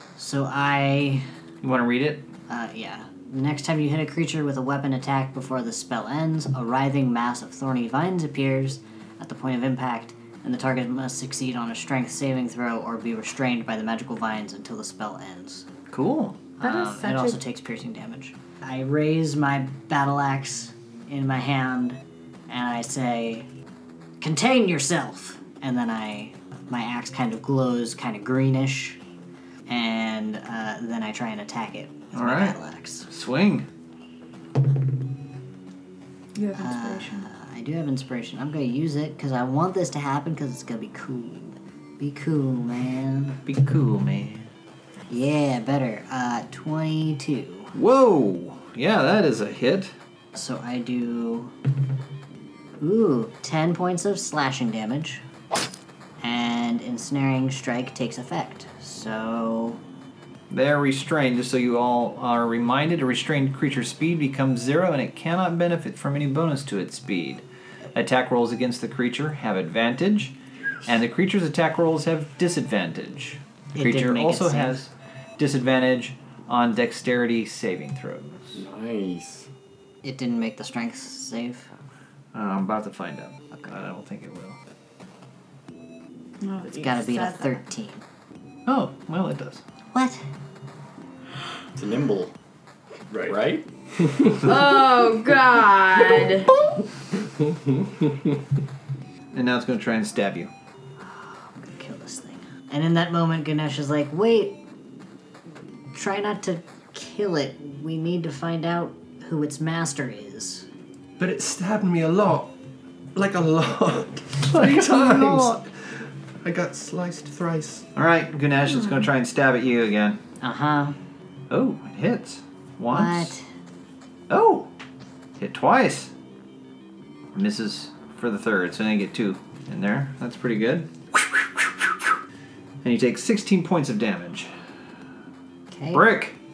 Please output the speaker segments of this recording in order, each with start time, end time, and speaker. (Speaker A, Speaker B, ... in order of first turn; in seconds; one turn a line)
Speaker A: 0.2-1.3
Speaker B: 1.6-2.3
Speaker A: 2.5-15.7
Speaker B: 15.9-16.4
Speaker A: 16.6-23.5
Speaker C: 16.6-17.4
Speaker A: 24.2-29.0
Speaker A: 29.7-33.1
Speaker B: 32.1-33.7
Speaker C: 36.4-37.3
Speaker A: 36.6-43.4
Speaker B: 43.5-44.5
Speaker A: 45.1-47.7
Speaker B: 47.7-49.9
Speaker A: 50.3-51.5
Speaker A: 52.8-55.2
Speaker A: 56.2-59.8
Speaker B: 60.5-67.4
Speaker B: 68.0-78.6
Speaker A: 73.7-74.8
Speaker D: 78.5-79.5
Speaker A: 80.0-81.7
Speaker B: 82.3-84.6
Speaker C: 86.4-87.6
Speaker A: 86.8-88.0
Speaker B: 88.7-89.6
Speaker A: 89.9-90.2
Speaker D: 91.8-92.3
Speaker E: 93.1-93.4
Speaker D: 93.2-93.7
Speaker E: 94.0-94.5
Speaker C: 94.4-96.5
Speaker E: 97.2-98.4
Speaker B: 99.3-100.5
Speaker A: 101.0-104.6
Speaker A: 105.9-110.7
Speaker E: 111.2-112.5
Speaker E: 113.2-117.9
Speaker B: 114.5-115.6
Speaker B: 118.0-120.2
Speaker A: 120.4-121.0
Speaker B: 121.5-123.3
Speaker A: 122.9-123.5
Speaker B: 124.3-124.7
Speaker B: 125.4-126.1
Speaker B: 127.3-132.0
Speaker B: 132.8-134.5
Speaker A: 135.7-136.1
Speaker B: 135.9-136.4